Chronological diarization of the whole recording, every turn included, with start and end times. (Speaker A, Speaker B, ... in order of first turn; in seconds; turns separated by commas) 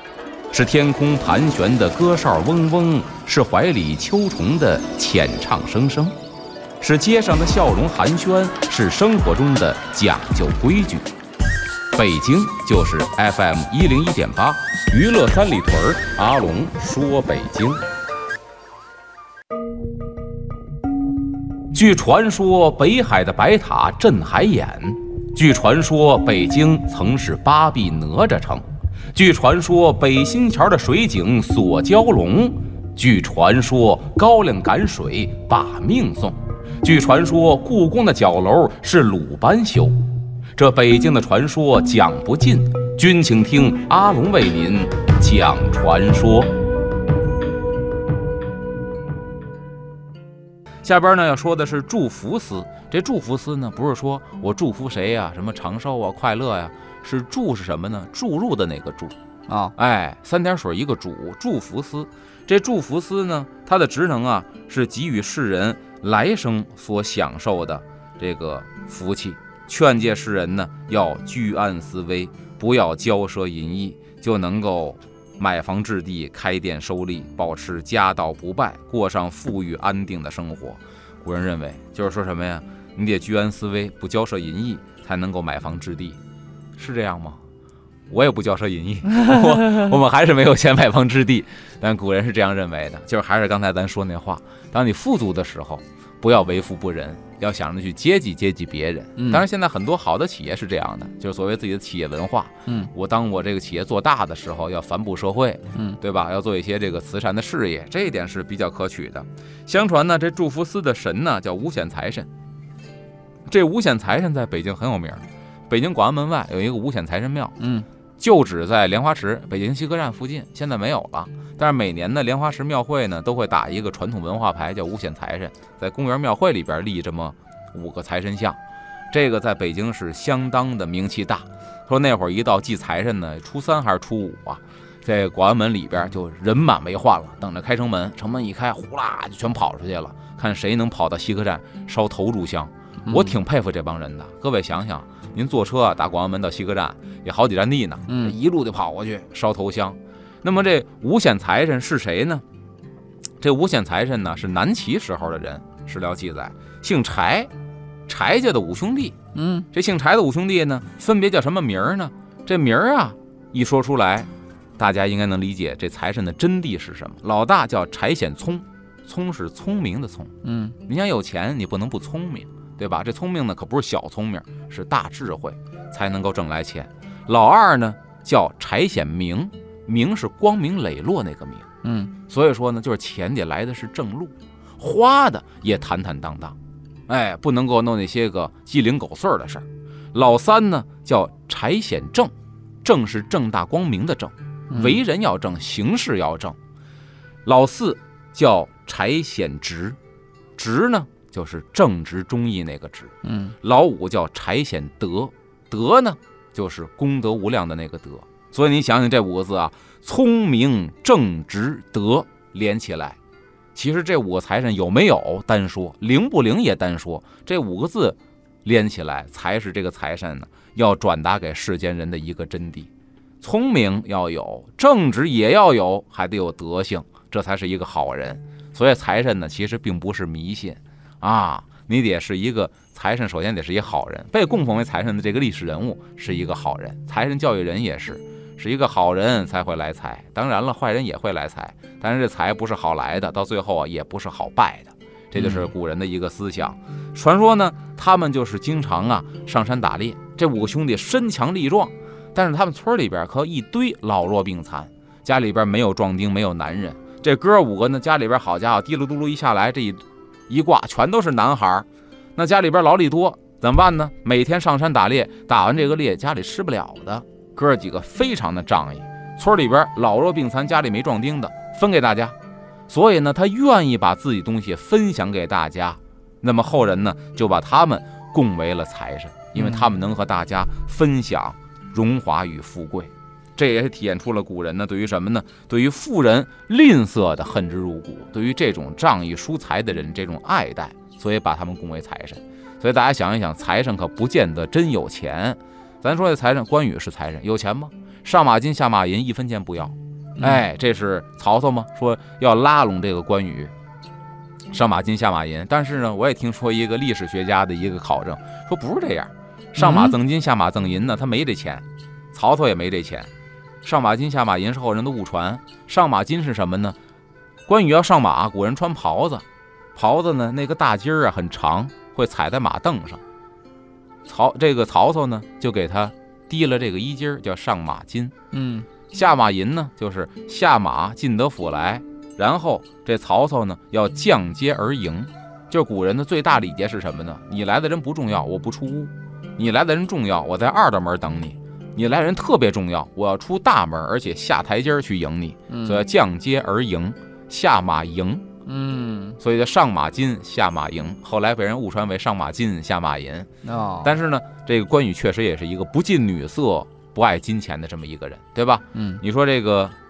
Speaker A: 0.5-6.2, Speaker A: 6.8-11.1, Speaker A: 11.9-17.8, Speaker A: 21.7-40.0, Speaker A: 40.6-46.5, Speaker A: 50.8-59.2, Speaker B: 59.5-59.7, Speaker A: 59.8-86.2, Speaker A: 86.8-87.4, Speaker A: 88.1-112.3, Speaker B: 99.2-99.4, Speaker A: 113.5-117.6, Speaker B: 117.6-117.9, Speaker A: 118.2-128.6, Speaker A: 129.1-152.4, Speaker B: 143.1-143.4, Speaker B: 148.1-148.3, Speaker A: 153.4-157.5, Speaker A: 158.1-159.2, Speaker B: 159.3-159.7, Speaker A: 159.7-170.3, Speaker B: 170.4-170.8, Speaker A: 170.9-181.7, Speaker B: 181.8-182.1, Speaker A: 182.3-186.6, Speaker A: 187.1-192.3, Speaker A: 192.8-196.6, Speaker A: 197.4-200.0, Speaker A: 200.6-213.2, Speaker B: 203.2-203.5, Speaker A: 213.8-222.9, Speaker A: 223.4-272.4, Speaker B: 245.3-245.7, Speaker A: 272.9-303.7, Speaker B: 279.6-279.9, Speaker A: 304.7-313.3, Speaker B: 309.8-310.2, Speaker A: 313.8-317.0, Speaker A: 317.7-319.4, Speaker A: 319.9-323.2, Speaker A: 324.2-328.4, Speaker B: 328.5-328.9, Speaker A: 329.1-348.5, Speaker B: 345.7-346.0, Speaker B: 348.7-349.4, Speaker A: 349.4-353.5, Speaker B: 353.6-354.1, Speaker A: 354.0-359.9, Speaker B: 358.9-359.2